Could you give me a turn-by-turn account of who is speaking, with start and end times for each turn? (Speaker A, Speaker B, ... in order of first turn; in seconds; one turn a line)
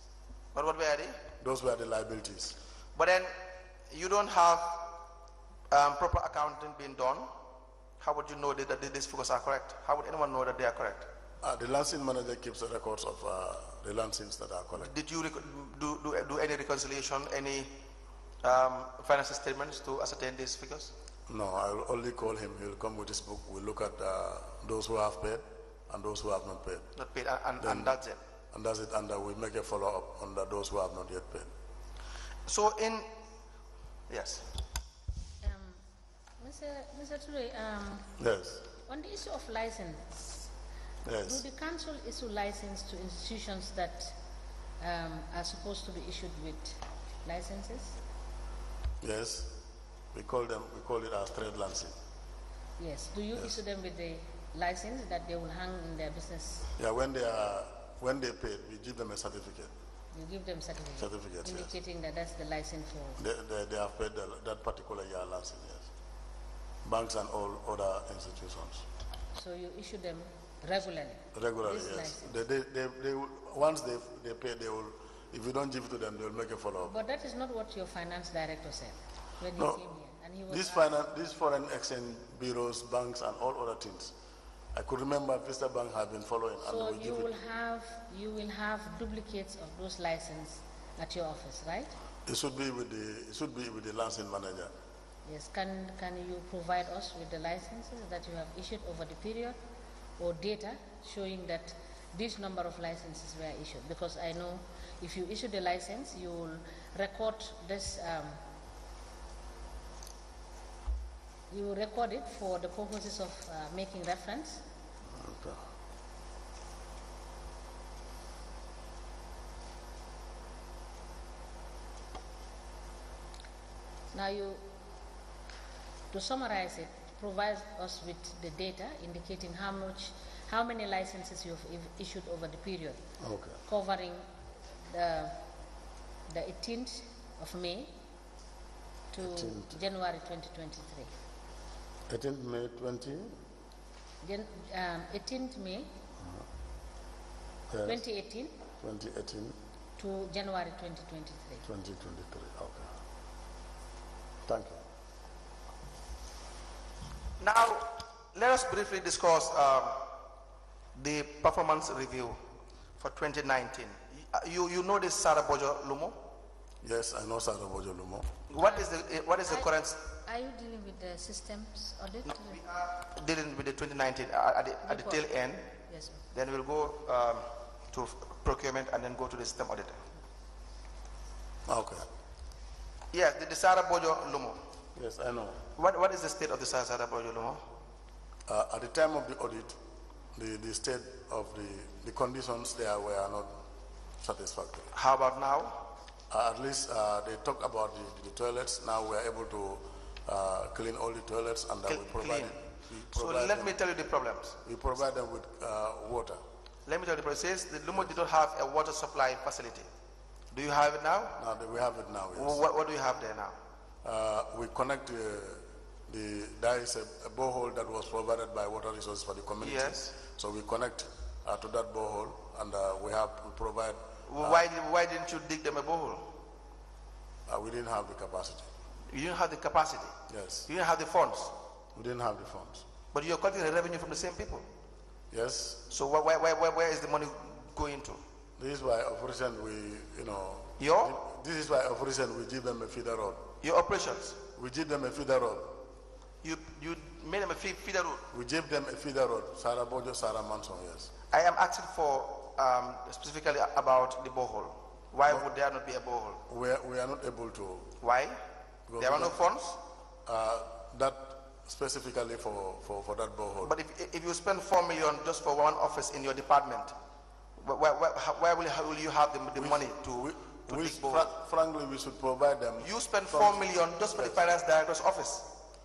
Speaker A: 0.5-1.2
Speaker B: 1.4-2.5
Speaker A: 3.0-3.3
Speaker A: 3.9-5.0
Speaker A: 5.7-7.3
Speaker A: 8.0-11.1
Speaker B: 11.4-14.9
Speaker A: 14.8-17.7
Speaker A: 18.4-20.9
Speaker B: 21.3-26.9
Speaker A: 26.9-28.2
Speaker B: 27.6-28.0
Speaker B: 28.5-31.5
Speaker A: 32.5-33.1
Speaker A: 34.1-34.5
Speaker C: 35.4-35.8
Speaker C: 36.4-38.1
Speaker B: 38.2-38.7
Speaker C: 38.8-40.5
Speaker B: 41.0-41.4
Speaker C: 41.2-44.2
Speaker C: 44.8-48.0
Speaker B: 49.0-49.6
Speaker B: 50.1-52.0
Speaker C: 52.8-56.7
Speaker B: 56.8-59.7
Speaker C: 60.1-63.2
Speaker B: 61.0-61.7
Speaker B: 63.2-65.9
Speaker B: 66.8-68.8
Speaker C: 69.3-72.4
Speaker B: 71.3-76.9
Speaker C: 76.8-80.9
Speaker B: 79.5-79.8
Speaker B: 80.5-84.2
Speaker B: 84.7-87.3
Speaker C: 86.6-91.9
Speaker B: 92.3-94.7
Speaker C: 95.3-99.6
Speaker C: 100.2-108.4
Speaker C: 111.5-114.6
Speaker B: 115.2-115.6
Speaker C: 124.1-124.6
Speaker C: 126.1-133.0
Speaker B: 133.2-133.6
Speaker C: 133.6-134.2
Speaker C: 134.9-135.4
Speaker C: 136.3-137.9
Speaker C: 139.1-141.1
Speaker B: 139.2-139.8
Speaker B: 142.1-143.4
Speaker C: 144.2-145.9
Speaker B: 147.7-148.0
Speaker C: 147.8-148.5
Speaker B: 148.8-149.6
Speaker C: 150.0-151.7
Speaker B: 151.7-152.9
Speaker B: 154.5-154.8
Speaker A: 157.4-160.1
Speaker A: 160.9-162.4
Speaker A: 163.0-166.2
Speaker B: 166.8-168.3
Speaker A: 168.5-170.1
Speaker C: 168.6-168.9
Speaker C: 170.2-172.6
Speaker A: 172.4-175.7
Speaker C: 174.9-175.2
Speaker C: 175.9-176.2
Speaker A: 176.3-180.0
Speaker B: 181.7-182.1
Speaker A: 183.1-184.6
Speaker B: 185.0-185.7
Speaker A: 185.8-187.6
Speaker B: 188.5-189.8
Speaker B: 190.3-193.6
Speaker B: 194.2-194.9
Speaker A: 194.9-195.9
Speaker B: 196.3-203.8
Speaker A: 201.9-204.6
Speaker B: 204.6-206.4
Speaker A: 206.9-209.9
Speaker A: 210.5-211.4
Speaker B: 211.4-212.6
Speaker A: 212.3-213.6
Speaker B: 214.0-224.6
Speaker A: 219.6-220.1
Speaker A: 224.3-226.3
Speaker B: 227.5-228.7
Speaker A: 229.1-231.6
Speaker B: 230.3-230.7
Speaker B: 231.9-232.8
Speaker A: 233.1-234.7
Speaker B: 235.3-235.9
Speaker A: 235.9-238.2
Speaker B: 238.6-243.5
Speaker A: 240.8-241.2
Speaker A: 243.6-244.4
Speaker B: 244.5-245.8
Speaker A: 246.4-248.3
Speaker B: 248.3-251.1
Speaker A: 251.3-256.4
Speaker B: 256.5-258.0
Speaker A: 258.0-258.4
Speaker B: 258.9-259.4
Speaker A: 259.0-259.8
Speaker B: 260.3-263.7
Speaker A: 263.6-266.9
Speaker A: 267.6-271.3
Speaker B: 269.5-274.4
Speaker A: 272.8-275.5